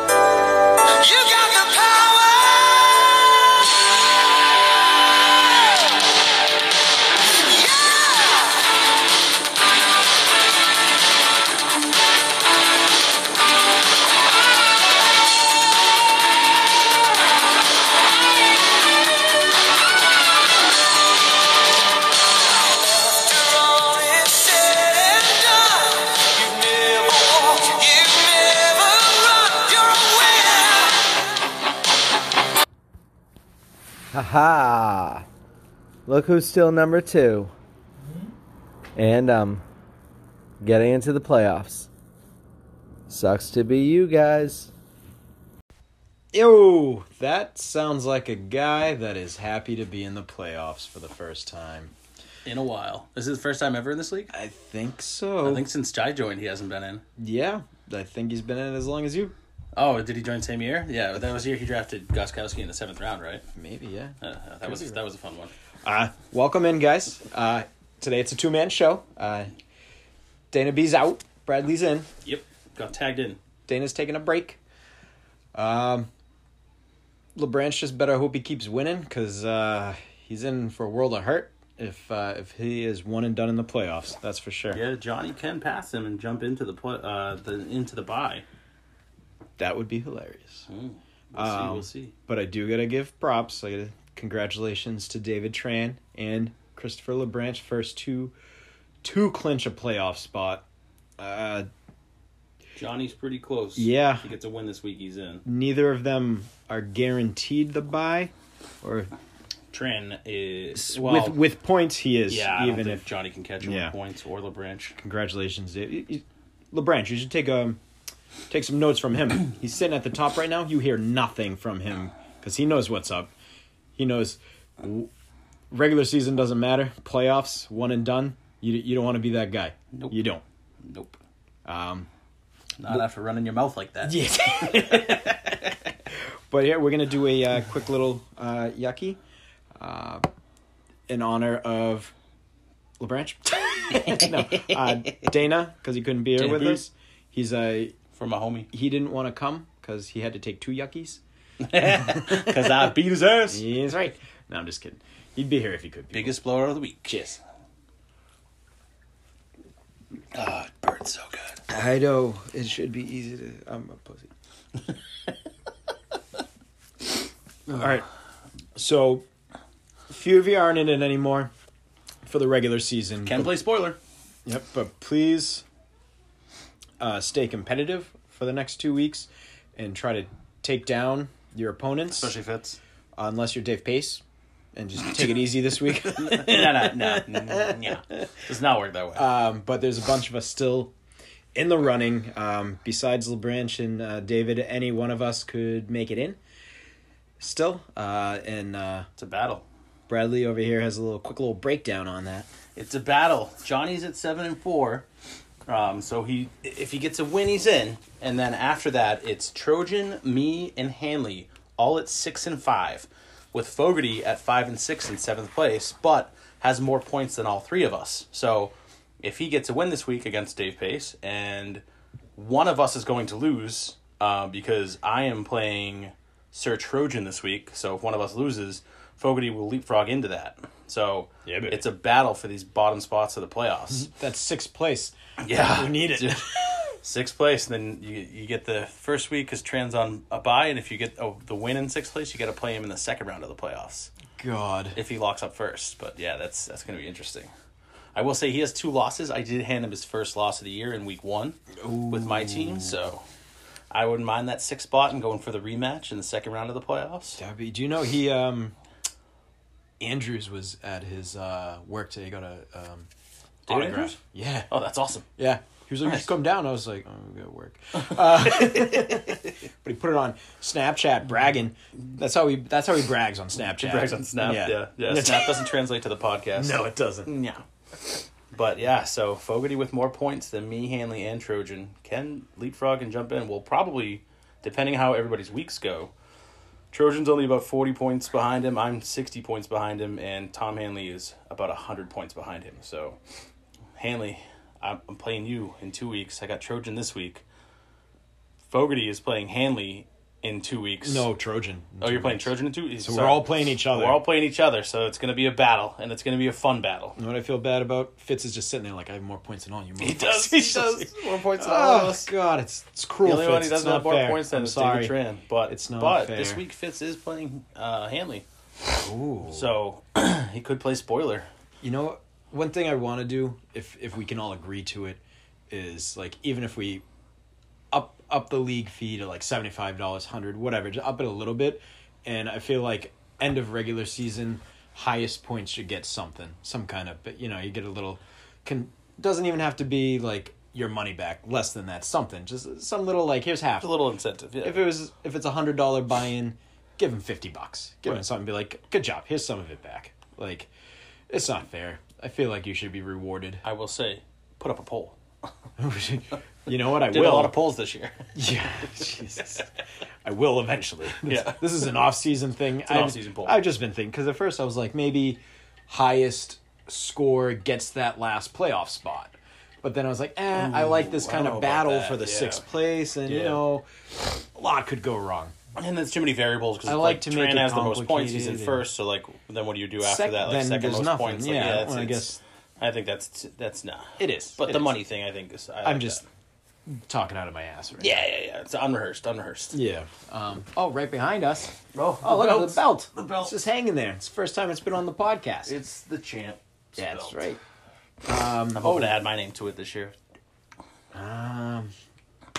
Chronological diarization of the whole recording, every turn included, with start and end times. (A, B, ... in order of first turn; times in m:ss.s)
0:00.9-0:02.9 A
0:07.4-0:08.6 A
0:22.9-0:31.2 A
0:34.1-0:35.3 A
0:36.1-0:37.5 A
0:39.0-0:39.6 A
0:40.6-0:41.9 A
0:43.1-0:44.7 A
0:46.3-0:51.9 B
0:52.4-0:54.3 C
0:54.3-0:55.7 B
0:55.4-0:57.0 C
0:57.2-0:59.4 B
0:59.8-1:03.4 C
1:03.6-1:05.0 B
1:04.2-1:05.5 C
1:05.8-1:09.5 B
1:10.5-1:12.1 B
1:12.2-1:13.4 C
1:13.7-1:14.6 B
1:15.5-1:16.1 B
1:17.4-1:24.8 B
1:24.7-1:28.4 C
1:29.6-1:30.7 B
1:30.7-1:32.2 C
1:31.4-1:38.4 B
1:39.0-1:40.6 B
1:41.2-1:41.7 B
1:42.8-1:45.4 C
1:43.8-1:44.3 B
1:45.4-1:49.1 B
1:49.7-1:51.4 C
1:50.8-1:53.0 B
1:52.3-1:55.0 C
1:53.6-1:54.0 B
1:55.0-1:57.8 B
1:58.5-2:03.3 B
2:04.0-2:05.1 B
2:05.7-2:10.4 B
2:10.8-2:11.2 C
2:11.6-2:12.1 B
2:12.8-2:15.8 C
2:14.0-2:15.7 B
2:16.5-2:19.2 B
2:19.8-2:20.2 B
2:21.1-2:22.1 B
2:23.0-2:28.0 B
2:26.4-2:26.8 C
2:28.2-2:28.7 C
2:28.7-2:31.2 B
2:31.6-2:33.6 C
2:31.8-2:32.9 B
2:33.5-2:36.4 B
2:36.1-2:37.4 C
2:40.3-2:41.6 C
2:41.7-2:44.3 B
2:47.7-2:48.1 B
2:48.8-2:49.2 B
2:50.1-2:51.5 B
2:52.2-2:53.6 B
2:53.2-2:54.0 C
2:54.5-2:55.6 B
2:57.0-3:02.4 B
3:02.1-3:02.8 C
3:03.2-3:04.2 B
3:04.7-3:08.2 B
3:06.1-3:09.3 C
3:09.2-3:10.9 B
3:11.6-3:16.4 B
3:17.4-3:19.1 B
3:19.2-3:19.6 C
3:20.1-3:22.5 B
3:22.8-3:25.1 C
3:25.7-3:41.8 C
3:42.4-3:54.1 C
3:51.4-3:51.8 B
3:53.9-3:56.9 B
3:55.4-4:04.1 C
4:04.4-4:05.0 B
4:05.0-4:07.5 C
4:08.2-4:13.2 C
4:11.8-4:13.0 B
4:13.9-4:17.4 C
4:17.4-4:18.8 B
4:20.0-4:23.1 B
4:23.7-4:24.2 C
4:23.7-4:24.7 B
4:24.7-4:25.3 C
4:25.4-4:35.7 B
4:28.5-4:29.5 C
4:33.8-4:37.6 C
4:36.6-4:37.3 B
4:38.5-4:46.1 C
4:46.9-4:53.2 C
4:54.0-4:57.4 C
4:58.7-5:01.3 C
5:01.0-5:04.2 B
5:02.0-5:07.2 C
5:07.2-5:15.2 B
5:10.0-5:12.3 C
5:13.2-5:18.5 C
5:15.7-5:16.6 B
5:18.9-5:19.7 B
5:19.4-5:21.5 C
5:21.8-5:27.0 B
5:27.9-5:43.9 B
5:43.8-5:44.9 C
5:44.6-5:50.7 B
5:51.3-5:53.6 B
5:53.6-5:55.2 C
5:55.8-5:57.6 B
5:56.8-5:58.4 C
5:58.4-5:59.7 B
6:00.2-6:15.6 B
6:01.1-6:01.9 C
6:02.8-6:03.6 C
6:10.5-6:12.7 C
6:13.2-6:13.6 C
6:15.8-6:26.3 C
6:16.9-6:18.9 B
6:20.0-6:22.4 B
6:24.2-6:25.0 B
6:25.8-6:26.2 B
6:26.9-6:28.3 B
6:28.0-6:29.8 C
6:29.7-6:35.8 B
6:31.9-6:33.6 C
6:35.6-6:37.5 C
6:37.0-6:37.6 B
6:38.2-6:39.2 B
6:38.7-6:40.2 C
6:41.1-6:41.9 B